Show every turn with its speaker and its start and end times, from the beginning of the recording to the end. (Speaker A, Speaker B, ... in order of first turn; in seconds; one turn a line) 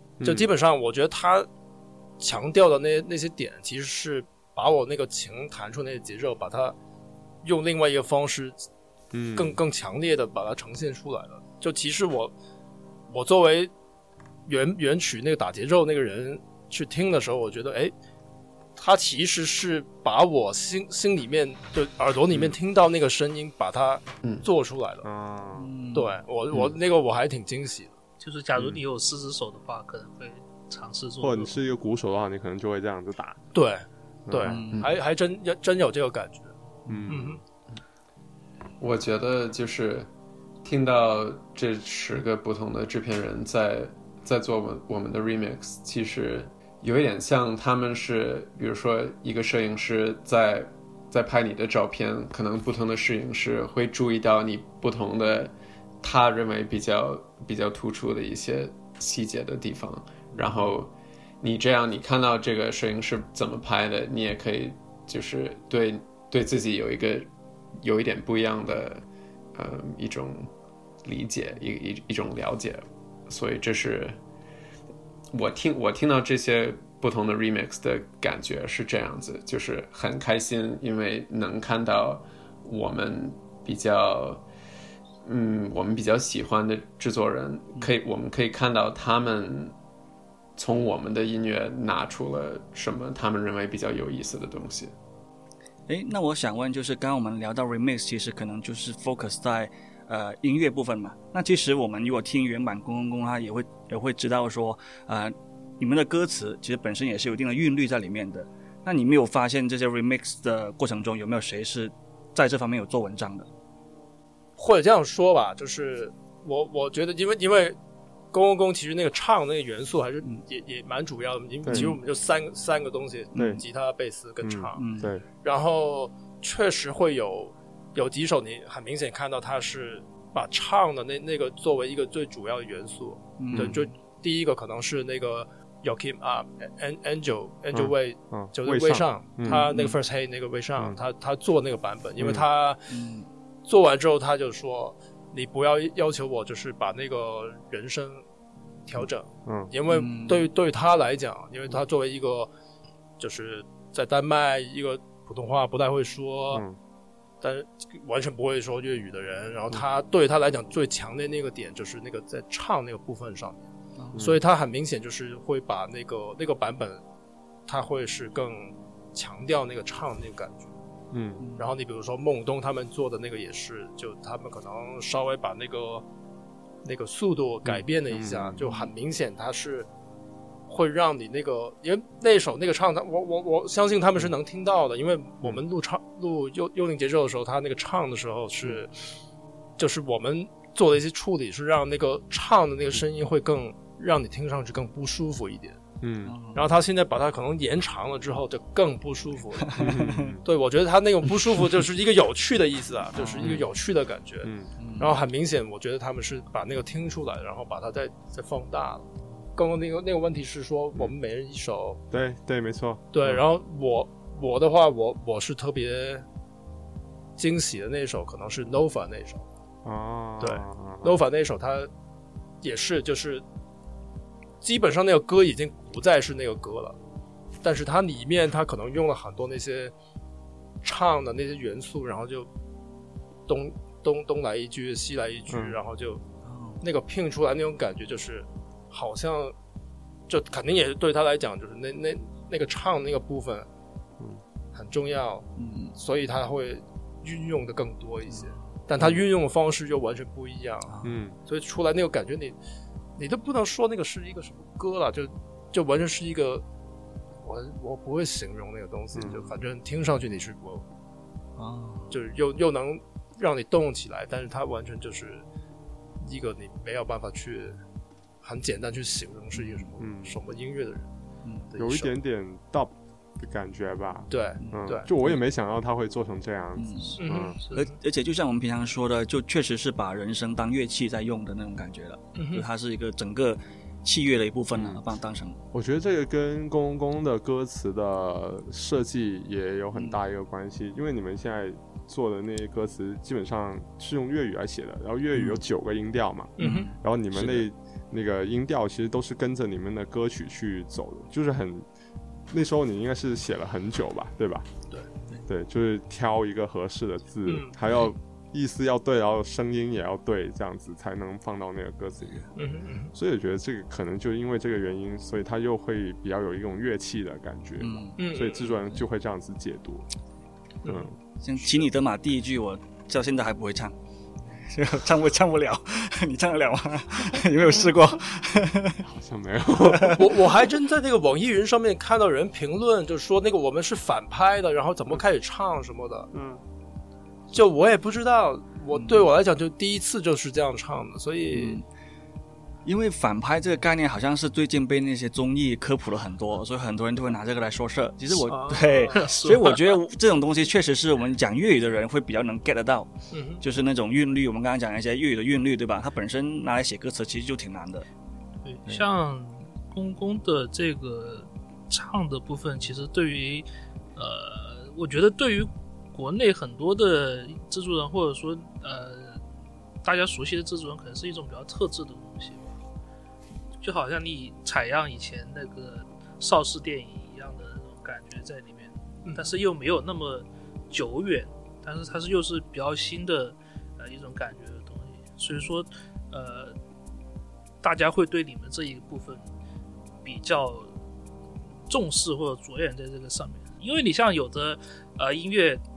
Speaker A: 0.2-0.5
Speaker B: 0.2-1.5
Speaker B: 2.2-6.8
Speaker B: 7.4-8.7
Speaker A: 9.1-9.6
Speaker B: 9.4-12.3
Speaker B: 13.1-13.7
Speaker B: 14.5-17.9
Speaker B: 18.8-25.1
Speaker A: 25.0-25.7
Speaker C: 25.6-26.1
Speaker B: 25.9-28.0
Speaker D: 28.2-31.5
Speaker A: 28.6-28.8
Speaker A: 31.2-33.4
Speaker B: 33.5-36.5
Speaker A: 34.3-34.6
Speaker C: 34.5-34.9
Speaker A: 36.9-37.4
Speaker B: 37.1-37.4
Speaker E: 38.8-40.1
Speaker E: 40.6-69.0
Speaker A: 60.3-60.7
Speaker E: 69.5-70.5
Speaker E: 71.0-74.2
Speaker E: 75.3-84.4
Speaker E: 85.2-89.7
Speaker E: 90.5-94.9
Speaker C: 95.9-113.5
Speaker B: 114.6-117.8
Speaker B: 118.3-124.8
Speaker A: 121.6-121.9
Speaker C: 121.7-122.0
Speaker C: 123.3-123.6
Speaker A: 123.3-123.6
Speaker A: 124.4-125.2
Speaker C: 124.8-125.1
Speaker B: 125.4-142.9
Speaker C: 133.4-133.9
Speaker A: 133.5-133.8
Speaker A: 137.7-139.7
Speaker A: 142.2-142.4
Speaker C: 142.9-143.3
Speaker B: 143.6-148.2
Speaker B: 148.9-152.5
Speaker A: 149.4-149.7
Speaker C: 149.9-150.5
Speaker B: 153.2-156.6
Speaker A: 156.5-156.8
Speaker B: 157.4-167.0
Speaker C: 164.0-164.2
Speaker A: 164.1-164.4
Speaker B: 167.7-170.7
Speaker A: 171.1-171.4
Speaker C: 171.4-171.7
Speaker B: 171.6-176.1
Speaker B: 176.8-179.9
Speaker A: 178.1-178.6
Speaker B: 180.7-188.9
Speaker B: 189.8-195.8
Speaker A: 196.0-196.3
Speaker C: 196.2-196.7
Speaker B: 196.5-199.9
Speaker C: 199.6-200.4
Speaker A: 199.8-200.4
Speaker B: 200.4-212.0
Speaker C: 203.2-203.6
Speaker A: 204.4-204.7
Speaker C: 204.8-205.2
Speaker A: 212.1-213.4
Speaker B: 213.1-216.2
Speaker B: 217.4-219.5
Speaker A: 219.8-221.2
Speaker B: 220.4-221.9
Speaker B: 222.6-223.4
Speaker B: 224.6-227.0
Speaker B: 227.6-229.9
Speaker B: 230.8-232.5
Speaker B: 233.5-236.2
Speaker A: 235.5-235.8
Speaker C: 236.4-236.8
Speaker B: 236.8-239.5
Speaker B: 240.3-243.7
Speaker B: 244.7-250.9
Speaker C: 245.6-245.9
Speaker C: 248.3-248.7
Speaker C: 250.9-251.1
Speaker A: 251.0-251.3
Speaker B: 251.4-252.6
Speaker B: 253.2-256.6
Speaker B: 257.4-260.8
Speaker A: 259.1-259.5
Speaker C: 261.6-262.2
Speaker B: 262.1-265.4
Speaker B: 266.2-267.8
Speaker B: 268.4-271.1
Speaker C: 269.6-269.9
Speaker A: 270.0-270.4
Speaker C: 271.4-271.7
Speaker B: 271.7-272.1
Speaker A: 271.8-277.6
Speaker B: 274.3-275.1
Speaker C: 274.6-275.4
Speaker C: 276.8-285.6
Speaker D: 277.1-277.8
Speaker B: 277.2-277.9
Speaker B: 282.3-282.7
Speaker A: 284.7-285.0
Speaker A: 285.7-301.9
Speaker C: 295.3-295.6
Speaker B: 296.6-296.9
Speaker C: 296.6-297.7
Speaker A: 302.5-304.7
Speaker A: 305.5-312.5
Speaker B: 307.4-307.7
Speaker B: 312.6-313.1
Speaker A: 313.1-320.1
Speaker C: 317.8-318.3
Speaker B: 318.2-318.7
Speaker B: 320.8-321.1
Speaker A: 320.9-321.2
Speaker C: 321.4-323.9
Speaker C: 324.7-329.0
Speaker A: 329.0-330.2
Speaker C: 329.9-330.2
Speaker B: 330.0-336.3
Speaker A: 336.3-336.6
Speaker B: 337.5-341.8
Speaker C: 338.9-339.3
Speaker C: 341.5-341.8
Speaker C: 342.8-353.1
Speaker B: 348.4-349.2
Speaker D: 349.2-349.9
Speaker B: 353.3-353.6
Speaker C: 353.6-358.1
Speaker D: 358.6-369.4
Speaker D: 370.0-372.8
Speaker D: 373.8-386.8
Speaker B: 379.2-379.5
Speaker D: 387.8-389.4
Speaker D: 390.2-390.9
Speaker D: 391.9-395.8